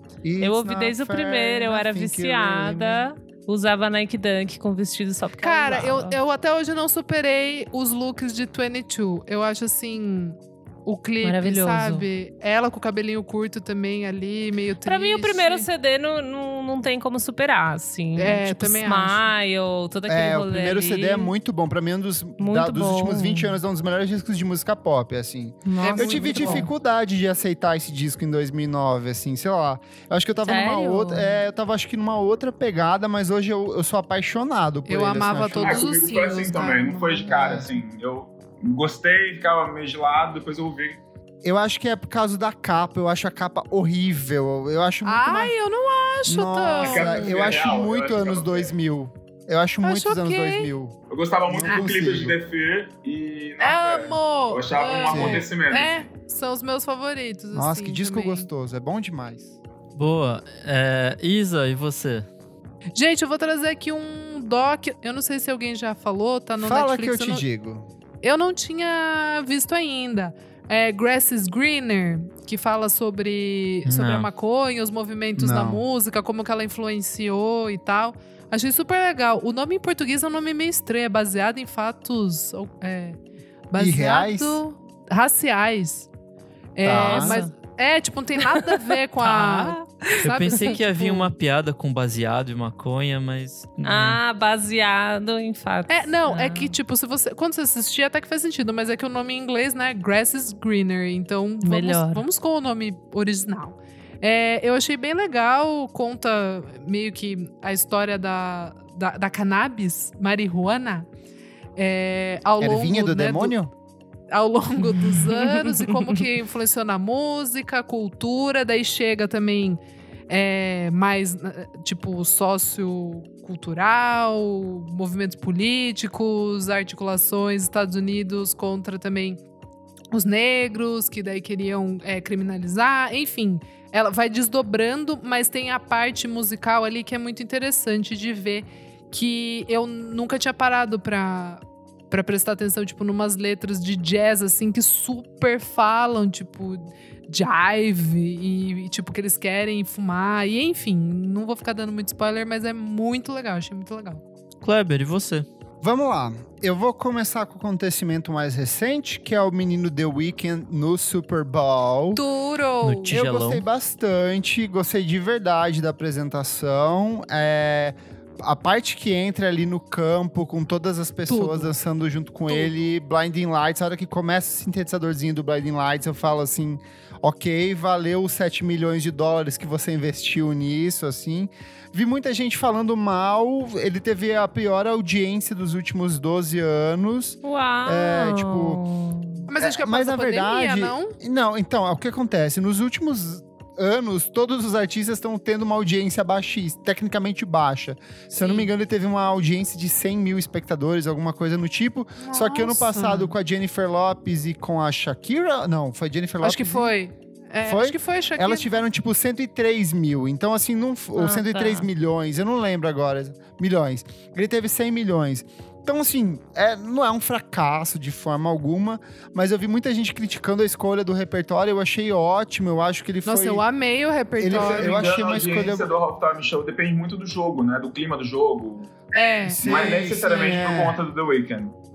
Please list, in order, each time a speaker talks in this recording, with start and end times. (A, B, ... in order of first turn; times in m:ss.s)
0:00.2-0:03.1 A
0:00.4-0:06.2 B
0:05.4-0:15.7 C
0:11.2-0:12.1 B
0:14.8-0:21.3 B
0:18.2-0:19.2 C
0:20.1-0:36.1 A
0:22.4-0:23.6 B
0:25.6-0:26.7 B
0:25.8-0:26.7 C
0:30.4-0:31.4 B
0:34.9-0:37.6 C
0:35.5-0:41.0 D
0:37.3-0:37.7 A
0:41.4-0:45.5 A
0:45.0-0:47.7 C
0:46.3-0:50.9 A
0:46.8-0:48.8 D
0:49.8-0:50.7 C
0:51.1-0:56.0 D
0:51.5-0:52.4 A
0:51.7-0:51.9 C
0:53.6-0:58.5 C
0:55.1-0:55.5 A
0:57.5-0:59.6 A
1:00.0-1:02.3 E
1:03.0-1:07.4 C
1:06.6-1:07.9 A
1:08.2-1:23.2 C
1:13.9-1:14.3 E
1:15.4-1:15.8 A
1:23.7-1:26.1 C
1:23.8-1:24.6 A
1:26.8-1:31.3 C
1:26.8-1:27.4 A
1:26.9-1:27.5 B
1:28.4-1:30.7 B
1:30.2-1:34.2 E
1:33.8-1:36.8 B
1:35.9-1:51.1 C
1:41.6-1:42.2 B
1:51.8-1:53.5 C
1:52.6-1:53.7 A
1:54.3-2:09.4 C
1:55.0-1:55.8 B
2:10.1-2:34.2 C
2:34.6-2:35.5 E
2:35.8-2:42.2 A
2:42.1-2:43.1 C
2:42.8-2:43.6 E
2:43.1-3:08.8 A
2:51.3-2:51.7 C
3:07.4-3:09.5 B
3:09.5-3:11.2 C
3:09.5-3:26.9 A
3:18.4-3:18.7 C
3:22.2-3:23.3 C
3:26.4-3:28.8 C
3:27.6-3:43.6 A
3:31.2-3:31.9 B
3:43.3-3:45.3 C
3:44.4-3:45.9 A
3:44.5-3:51.7 D
3:49.2-3:50.9 C
3:49.5-3:51.0 A